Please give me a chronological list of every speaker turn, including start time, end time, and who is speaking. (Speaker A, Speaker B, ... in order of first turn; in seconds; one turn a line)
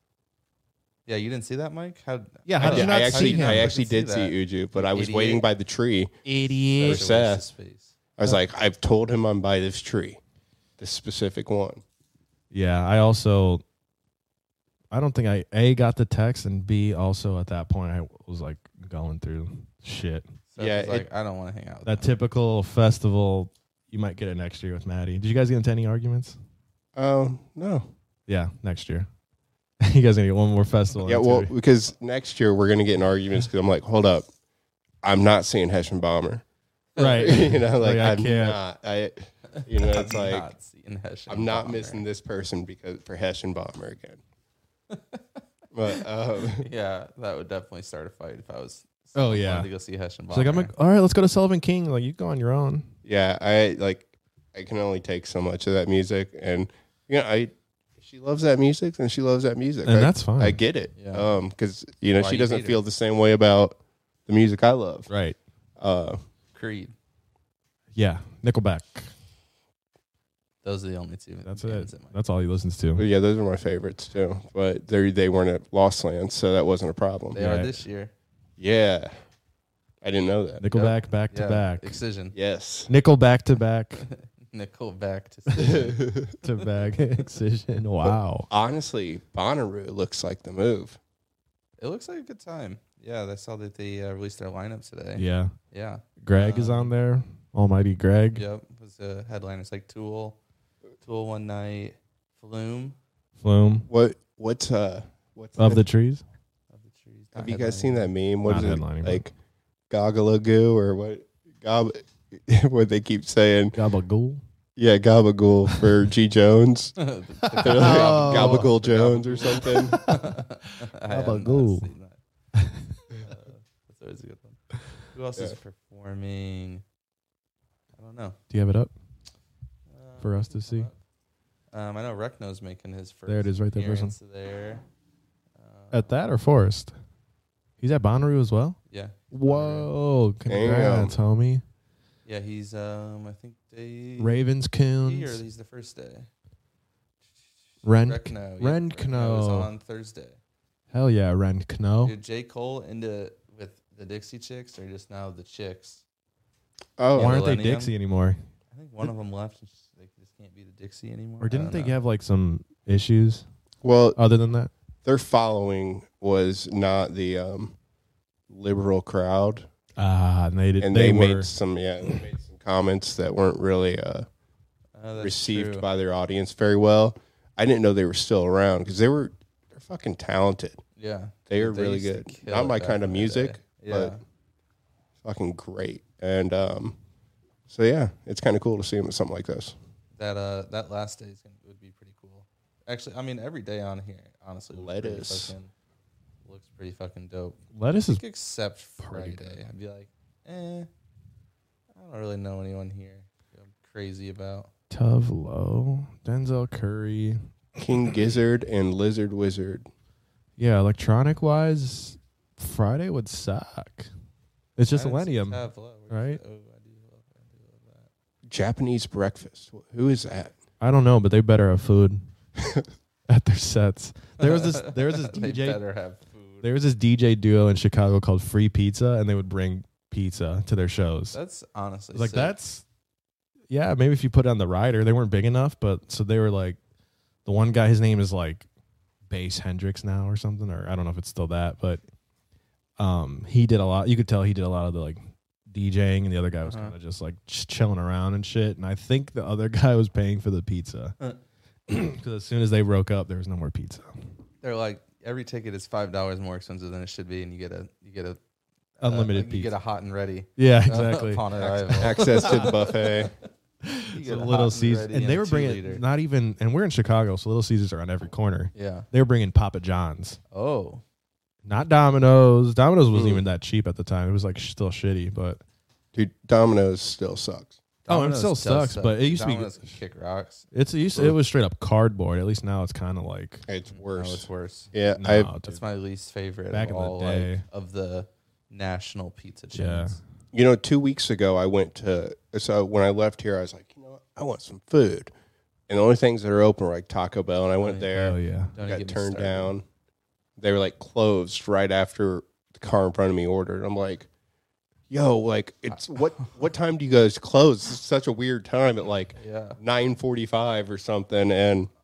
Speaker A: 1.1-5.5
Speaker B: 2.5-3.7
Speaker C: 2.6-6.2
Speaker B: 6.2-7.1
Speaker C: 6.8-7.5
Speaker A: 6.8-7.9
Speaker C: 8.2-10.2
Speaker C: 10.8-11.8
Speaker B: 12.5-13.6
Speaker B: 14.9-20.3
Speaker A: 20.5-22.2
Speaker C: 20.6-21.1
Speaker B: 21.9-26.4
Speaker C: 26.9-27.9
Speaker B: 28.3-29.1
Speaker B: 29.8-31.5
Speaker C: 31.1-34.3
Speaker C: 35.0-36.4
Speaker B: 37.0-38.6
Speaker C: 37.0-40.5
Speaker A: 39.5-42.0
Speaker C: 41.3-44.2
Speaker A: 44.9-45.4
Speaker C: 45.7-46.7
Speaker A: 45.9-50.7
Speaker B: 49.1-49.7
Speaker B: 50.3-52.9
Speaker C: 53.0-65.1
Speaker B: 59.9-60.6
Speaker A: 61.0-61.3
Speaker A: 62.2-62.8
Speaker B: 65.1-65.4
Speaker C: 65.8-66.2
Speaker A: 66.5-66.9
Speaker B: 68.0-69.1
Speaker A: 70.6-72.2
Speaker B: 71.5-73.1
Speaker C: 73.0-77.4
Speaker A: 77.3-78.1
Speaker B: 77.3-77.8
Speaker C: 78.6-79.1
Speaker C: 80.0-80.6
Speaker B: 80.6-82.0
Speaker A: 80.7-82.3
Speaker C: 82.3-82.9
Speaker B: 82.9-84.0
Speaker A: 84.0-86.1
Speaker C: 85.6-86.3
Speaker B: 86.4-88.5
Speaker C: 88.5-91.0
Speaker A: 91.8-96.9
Speaker B: 95.2-95.5
Speaker B: 96.2-98.5
Speaker A: 98.3-100.4
Speaker A: 101.0-103.0
Speaker B: 103.4-103.9
Speaker C: 103.9-105.8
Speaker B: 105.6-106.2
Speaker A: 106.7-108.1
Speaker C: 107.3-109.3
Speaker B: 108.5-109.2
Speaker C: 109.9-113.8
Speaker B: 113.8-114.4
Speaker C: 114.8-117.0
Speaker A: 117.0-122.2
Speaker B: 117.4-118.7
Speaker C: 117.6-120.0
Speaker B: 119.6-120.4
Speaker B: 121.1-121.9
Speaker B: 122.6-123.0
Speaker A: 123.1-126.8
Speaker A: 128.0-128.4
Speaker B: 128.5-128.9
Speaker A: 129.9-131.0
Speaker B: 130.2-130.9
Speaker A: 131.7-134.8
Speaker B: 133.3-134.2
Speaker A: 135.6-136.1
Speaker B: 135.9-136.9
Speaker B: 137.8-138.8
Speaker A: 138.9-139.9
Speaker B: 139.3-141.6
Speaker C: 140.5-141.2
Speaker A: 142.2-144.4
Speaker B: 144.2-145.4
Speaker A: 145.0-146.3
Speaker B: 147.8-149.7
Speaker A: 147.8-150.4
Speaker B: 150.9-152.2
Speaker A: 152.0-156.0
Speaker C: 157.0-157.4
Speaker A: 157.1-157.9
Speaker B: 157.2-158.4
Speaker A: 158.7-162.0
Speaker B: 161.4-163.4
Speaker C: 163.8-164.2
Speaker B: 164.2-164.7
Speaker C: 165.1-167.8
Speaker C: 168.5-169.7
Speaker B: 170.0-171.5
Speaker C: 170.8-174.3
Speaker A: 174.9-175.9
Speaker C: 175.2-180.8
Speaker A: 181.0-184.2
Speaker C: 181.5-184.1
Speaker C: 185.2-187.0
Speaker C: 187.7-189.8
Speaker A: 190.2-195.7
Speaker C: 194.7-195.5
Speaker A: 196.4-200.9
Speaker B: 197.7-198.2
Speaker B: 199.0-199.6
Speaker A: 201.9-204.7
Speaker B: 204.9-207.4
Speaker C: 207.8-209.9
Speaker B: 210.6-214.1
Speaker B: 214.8-216.4
Speaker A: 214.9-218.1
Speaker C: 218.5-220.5
Speaker B: 220.8-222.3
Speaker B: 223.3-225.8
Speaker A: 224.4-226.7
Speaker B: 226.6-231.4
Speaker A: 231.3-232.6
Speaker B: 232.1-232.8
Speaker B: 233.7-236.8
Speaker B: 237.4-238.7
Speaker B: 239.3-242.0
Speaker B: 243.0-251.2
Speaker A: 246.7-246.9
Speaker B: 251.9-254.2
Speaker A: 254.6-258.4
Speaker A: 259.0-263.3
Speaker B: 259.0-259.8
Speaker B: 260.6-262.7
Speaker C: 262.0-263.3
Speaker B: 263.8-270.4
Speaker A: 264.1-266.0
Speaker A: 268.7-269.1
Speaker A: 270.5-271.0
Speaker B: 271.6-275.6
Speaker C: 273.1-273.4
Speaker C: 276.1-277.8
Speaker A: 278.1-280.7
Speaker B: 278.1-279.9
Speaker B: 280.7-283.6
Speaker C: 283.7-285.5
Speaker A: 283.9-284.9
Speaker B: 285.2-285.8
Speaker A: 285.6-290.2
Speaker B: 286.7-287.6
Speaker B: 289.8-290.2
Speaker C: 290.5-295.3
Speaker C: 295.9-299.9
Speaker A: 297.8-298.1
Speaker B: 298.1-298.7
Speaker A: 298.7-299.7
Speaker C: 300.6-304.3
Speaker C: 305.1-311.9
Speaker A: 305.9-306.5
Speaker A: 309.4-309.8